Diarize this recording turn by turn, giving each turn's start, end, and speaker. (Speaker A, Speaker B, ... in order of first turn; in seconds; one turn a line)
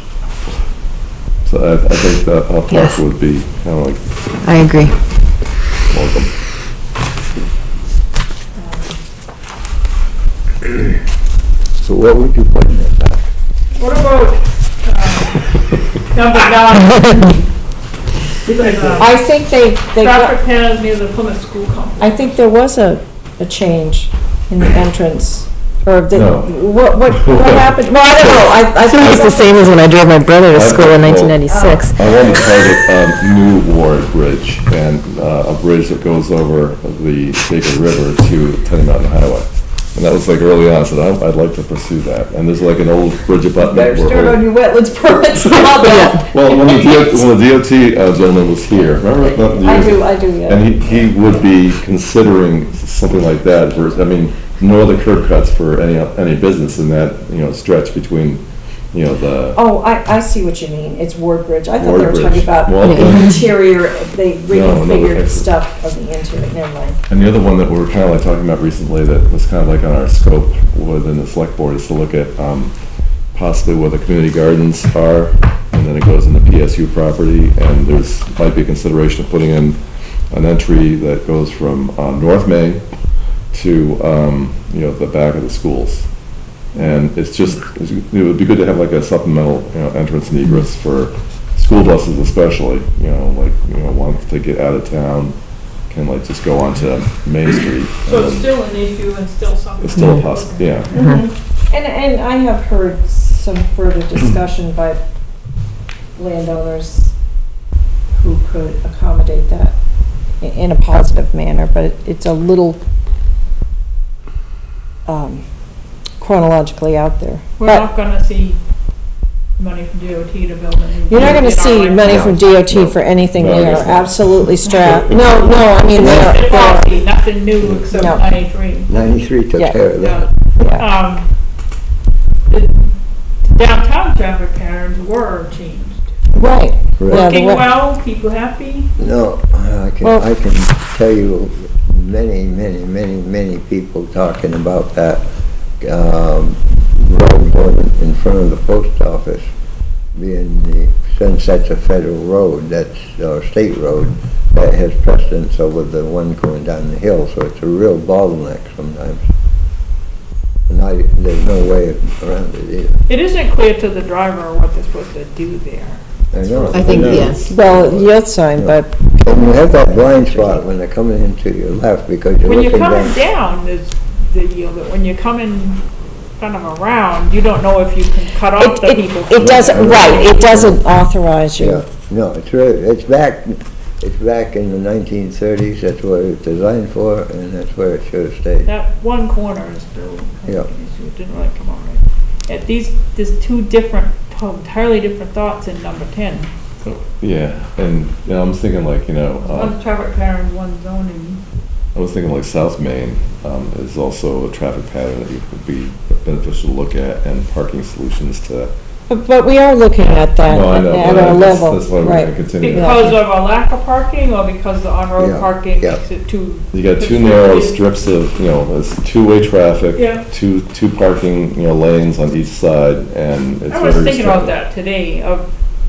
Speaker A: 1.4-4.0
Speaker B: 2.7-3.0
Speaker B: 4.4-5.0
Speaker A: 5.9-6.3
Speaker C: 11.8-13.3
Speaker D: 13.8-15.4
Speaker D: 16.1-17.5
Speaker D: 18.4-19.2
Speaker E: 18.9-20.4
Speaker D: 19.9-22.3
Speaker E: 22.0-29.7
Speaker A: 26.1-29.2
Speaker B: 28.6-32.0
Speaker A: 30.5-44.5
Speaker E: 31.4-32.5
Speaker E: 43.6-47.2
Speaker A: 45.5-59.6
Speaker B: 45.8-46.2
Speaker E: 49.2-51.3
Speaker E: 59.5-67.0
Speaker A: 61.8-63.5
Speaker B: 62.8-63.3
Speaker A: 64.5-65.5
Speaker A: 67.1-72.7
Speaker A: 73.3-79.8
Speaker A: 80.3-82.8
Speaker A: 83.5-86.1
Speaker A: 86.8-95.4
Speaker A: 95.9-98.5
Speaker D: 98.1-100.9
Speaker A: 99.8-101.0
Speaker B: 100.0-100.2
Speaker E: 100.9-105.0
Speaker B: 100.9-101.2
Speaker E: 106.2-107.1
Speaker E: 108.2-109.8
Speaker E: 110.4-112.8
Speaker E: 115.1-115.4
Speaker E: 116.2-117.9
Speaker D: 117.6-118.6
Speaker D: 119.6-122.4
Speaker E: 121.1-126.9
Speaker C: 121.1-121.4
Speaker C: 122.0-123.0
Speaker A: 123.4-125.4
Speaker D: 125.9-128.9
Speaker C: 126.0-126.5
Speaker C: 127.6-128.2
Speaker E: 127.9-128.2
Speaker C: 128.9-130.3
Speaker D: 129.9-131.3
Speaker E: 130.6-130.9
Speaker D: 132.5-132.9
Speaker D: 133.4-136.1
Speaker E: 136.3-137.7
Speaker C: 137.0-137.4
Speaker D: 137.1-138.9
Speaker C: 139.0-145.2
Speaker C: 145.8-149.5
Speaker C: 150.2-159.2
Speaker C: 160.7-163.0
Speaker D: 163.1-167.2
Speaker C: 166.3-173.2
Speaker B: 166.7-167.4
Speaker A: 166.7-167.5
Speaker E: 167.5-169.1
Speaker D: 172.4-175.8
Speaker D: 176.4-180.4
Speaker E: 178.6-181.8
Speaker C: 179.4-180.8
Speaker C: 181.6-188.7
Speaker D: 188.7-196.5
Speaker A: 196.8-199.8
Speaker D: 199.4-201.4
Speaker A: 201.9-208.7
Speaker E: 209.1-213.2
Speaker A: 210.4-213.2
Speaker D: 212.6-217.8
Speaker C: 215.2-216.0
Speaker A: 216.7-224.5
Speaker D: 219.9-220.3
Speaker D: 223.7-225.5